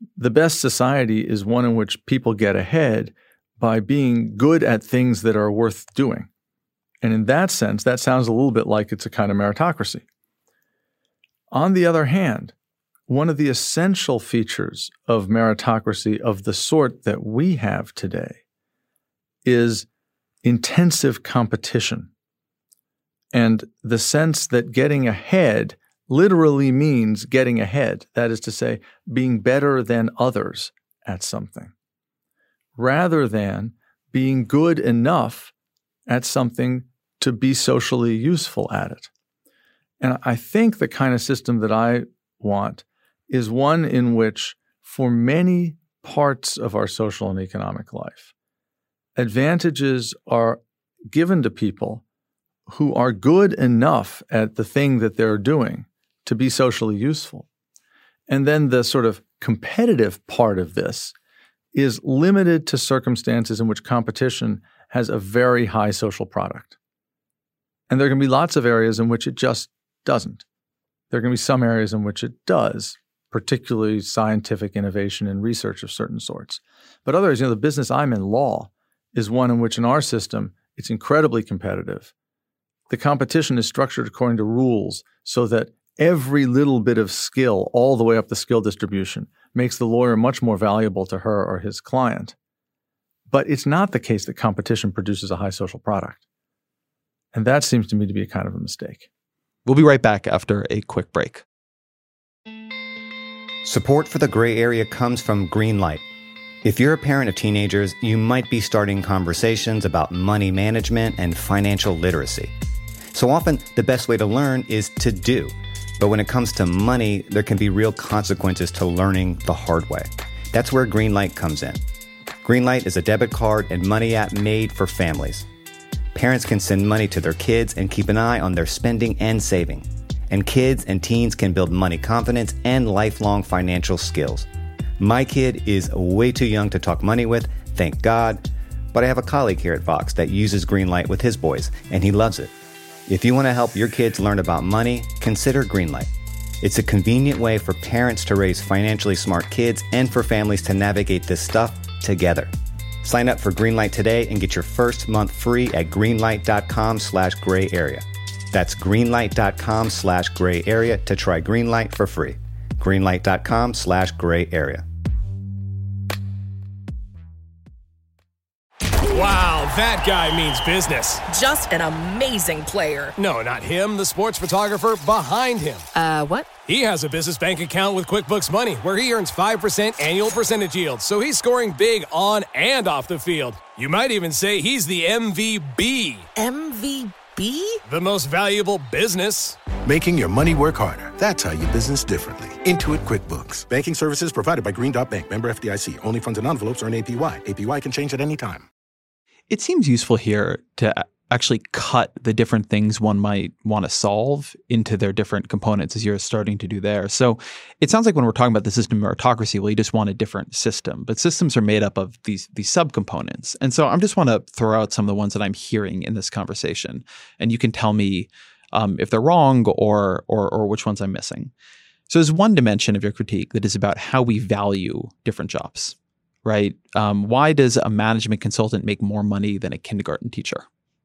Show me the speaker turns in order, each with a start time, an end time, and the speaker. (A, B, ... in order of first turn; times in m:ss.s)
0:00.2-0:06.3 A
0:07.0-0:10.0 A
0:11.5-0:12.5 A
0:13.1-0:18.4 A
0:19.4-0:19.9 A
0:20.4-0:22.1 A
0:23.3-0:31.7 A
0:32.8-0:35.5 A
0:36.1-0:39.1 A
0:40.0-0:48.3 A
0:49.2-0:52.0 A
0:52.7-0:57.4 A
0:58.3-1:01.1 A
1:01.7-1:06.7 A
1:07.9-1:10.4 A
1:11.1-1:22.1 A
1:22.9-1:32.4 A
1:33.3-1:36.2 A
1:37.3-1:39.1 A
1:39.6-1:41.4 B
1:43.6-1:46.0 C
1:46.6-1:52.5 C
1:53.1-2:01.8 C
2:02.4-2:05.4 C
2:06.1-2:14.4 C
2:15.0-2:22.5 C
2:23.1-2:26.1 C
2:26.6-2:32.5 C
2:33.0-2:44.8 C
2:49.1-2:51.2 D
2:51.3-2:53.1 E
2:53.2-2:55.9 D
2:55.9-2:56.5 E
2:56.6-3:06.3 D
3:06.3-3:07.8 E
3:07.9-3:09.6 D
3:09.8-3:18.7 F
3:19.5-3:41.5 B
3:42.1-3:50.6 B